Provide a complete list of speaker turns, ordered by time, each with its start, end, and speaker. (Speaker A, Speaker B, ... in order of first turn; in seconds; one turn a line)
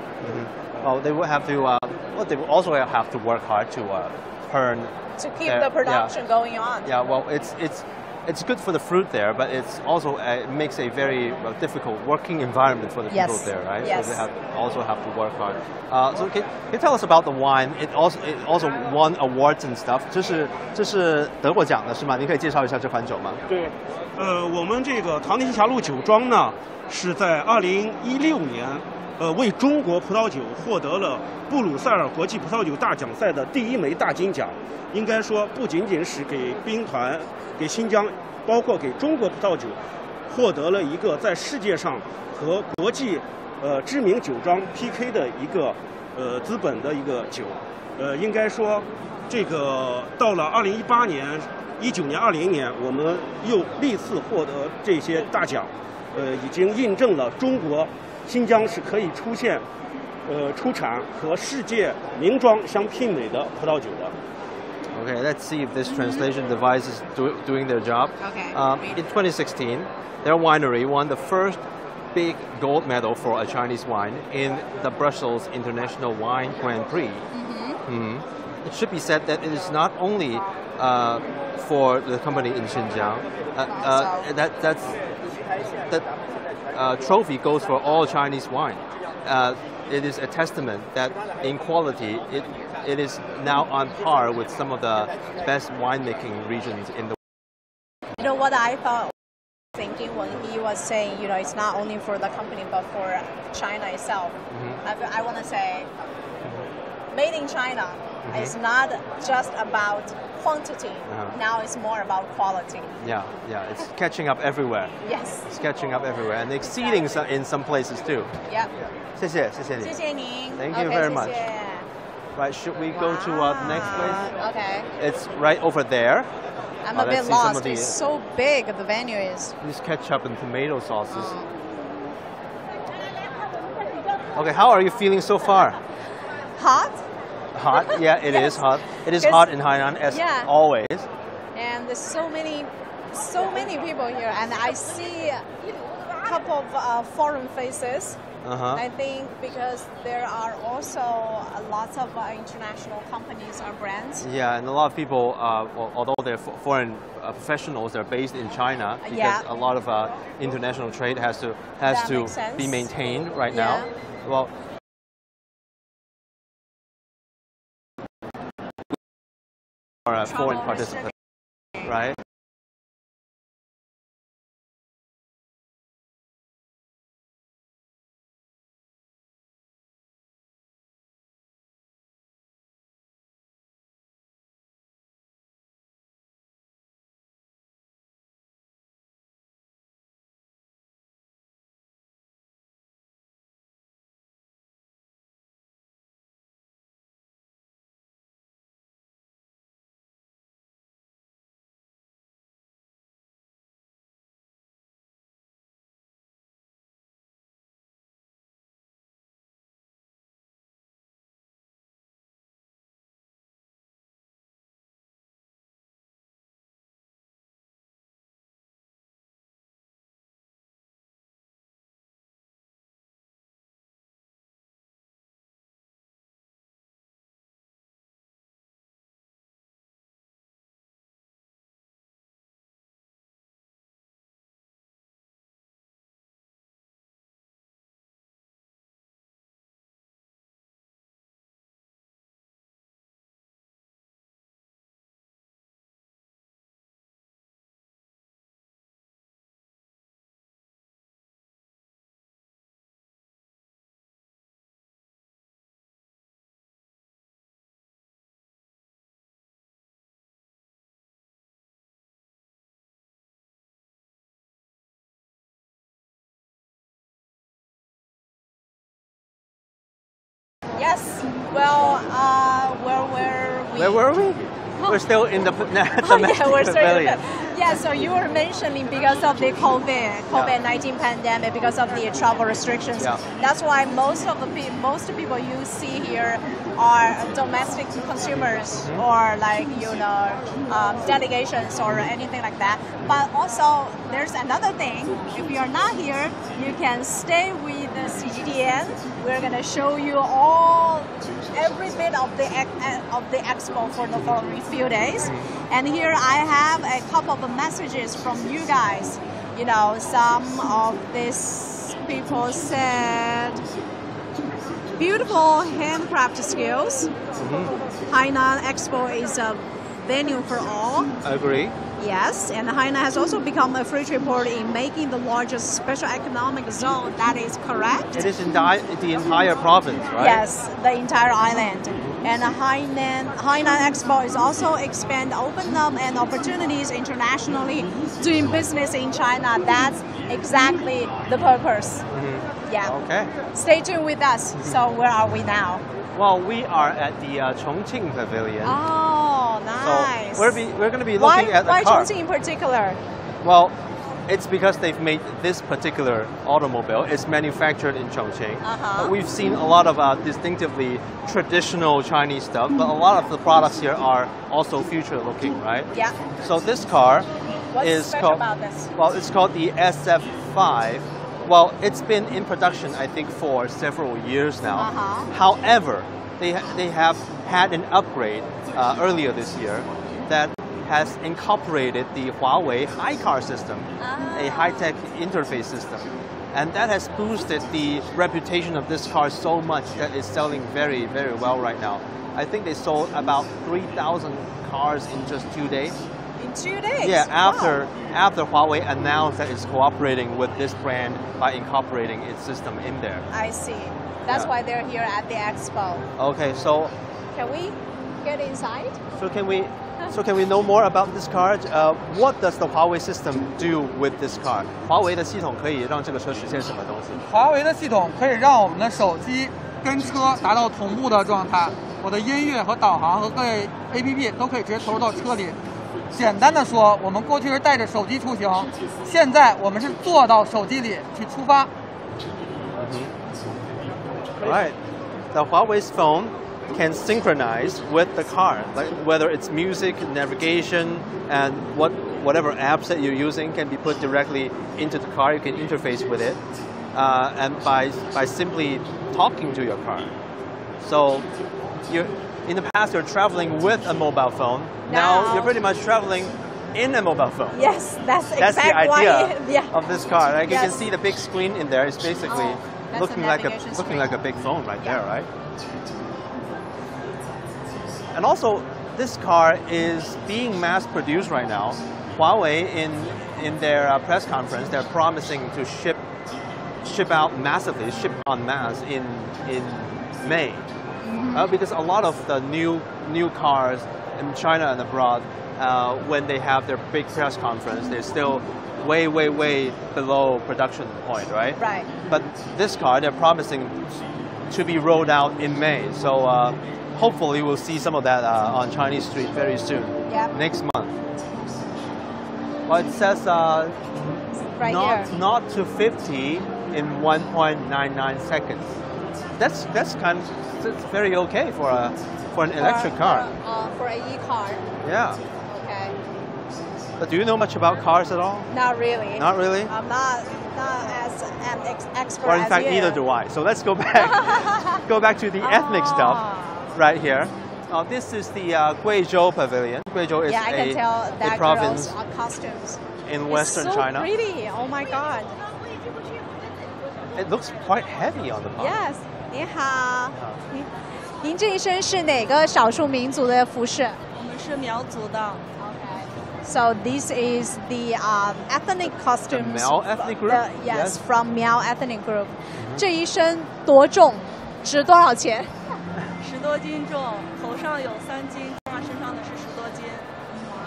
Speaker A: 0.2-6.1
Speaker B: 5.2-6.9
Speaker A: 6.8-23.4
Speaker B: 13.1-14.2
Speaker C: 23.5-59.6
Speaker C: 60.3-64.2
Speaker A: 64.9-71.6
Speaker B: 65.9-66.2
Speaker B: 68.2-69.0
Speaker A: 72.1-77.2
Speaker B: 77.3-77.8
Speaker A: 77.9-85.0
Speaker B: 83.7-84.3
Speaker A: 85.8-86.1
Speaker A: 86.7-97.2
Speaker B: 98.2-99.1
Speaker B: 99.8-105.9
Speaker A: 104.5-104.8
Speaker B: 107.1-112.9
Speaker A: 108.2-108.5
Speaker A: 111.1-111.4
Speaker A: 113.0-114.9
Speaker B: 115.0-115.5
Speaker A: 115.5-118.3
Speaker A: 119.2-120.0
Speaker B: 119.8-121.9
Speaker A: 120.6-121.5
Speaker A: 122.3-124.3
Speaker B: 122.9-124.9
Speaker A: 125.0-126.3
Speaker B: 126.8-129.6
Speaker A: 126.9-128.0
Speaker A: 129.6-131.4
Speaker B: 131.1-131.5
Speaker A: 134.3-135.8
Speaker B: 136.6-137.0
Speaker A: 137.5-141.1
Speaker B: 137.7-138.6
Speaker B: 139.2-139.5
Speaker B: 140.1-140.5
Speaker B: 141.6-145.5
Speaker B: 146.2-148.2
Speaker A: 148.4-148.8
Speaker B: 148.7-154.2
Speaker A: 154.2-164.5
Speaker B: 159.0-159.4
Speaker B: 161.9-162.9
Speaker B: 163.5-163.9
Speaker A: 170.1-171.1
Speaker B: 170.3-171.1
Speaker A: 171.8-172.2
Speaker B: 270.8-274.0
Speaker A: 273.8-277.5
Speaker B: 276.0-313.6
Speaker A: 288.8-289.1
Speaker B: 315.0-317.1
Speaker A: 317.4-317.8
Speaker B: 318.1-321.1
Speaker A: 321.2-321.8
Speaker B: 322.0-328.3
Speaker A: 328.1-330.4
Speaker B: 330.2-342.1
Speaker A: 342.1-343.3
Speaker B: 342.7-342.9
Speaker B: 343.5-345.8
Speaker A: 346.1-348.8
Speaker B: 348.6-350.6
Speaker A: 349.8-352.1
Speaker B: 351.2-353.0
Speaker A: 353.4-353.8
Speaker A: 354.3-368.4
Speaker B: 358.6-359.1
Speaker B: 367.7-368.9
Speaker A: 369.0-396.0
Speaker B: 374.7-375.3
Speaker B: 384.0-384.9
Speaker B: 396.4-397.8
Speaker A: 397.0-403.3
Speaker B: 403.3-406.1
Speaker A: 406.2-406.9
Speaker B: 407.3-409.0
Speaker A: 409.1-417.2
Speaker D: 417.3-425.6
Speaker D: 426.1-431.7
Speaker A: 432.8-433.1
Speaker A: 434.4-434.8
Speaker A: 435.3-446.4
Speaker A: 446.9-450.1
Speaker A: 450.8-451.3
Speaker A: 451.9-457.6
Speaker B: 454.9-455.6
Speaker B: 457.5-459.8
Speaker A: 458.4-465.3
Speaker B: 460.5-460.9
Speaker B: 462.3-464.1
Speaker A: 468.1-476.0
Speaker A: 476.8-480.7
Speaker B: 481.0-481.5
Speaker A: 481.3-493.9
Speaker B: 491.6-491.9
Speaker A: 494.5-501.0
Speaker B: 500.1-500.3
Speaker A: 502.7-503.8
Speaker B: 504.4-505.1
Speaker A: 504.6-508.8
Speaker A: 509.4-513.3
Speaker B: 512.6-514.6
Speaker A: 514.8-515.2
Speaker B: 515.5-515.9
Speaker A: 517.0-518.5
Speaker B: 518.5-523.0
Speaker A: 519.2-519.7
Speaker A: 522.2-526.2
Speaker B: 524.0-524.8
Speaker B: 525.4-526.7
Speaker A: 526.7-532.0
Speaker B: 530.3-535.4
Speaker A: 533.0-534.1
Speaker A: 537.1-538.8
Speaker B: 538.6-544.0
Speaker E: 544.2-545.4
Speaker B: 545.6-555.5
Speaker A: 549.3-551.0
Speaker A: 552.6-552.8
Speaker E: 556.2-560.1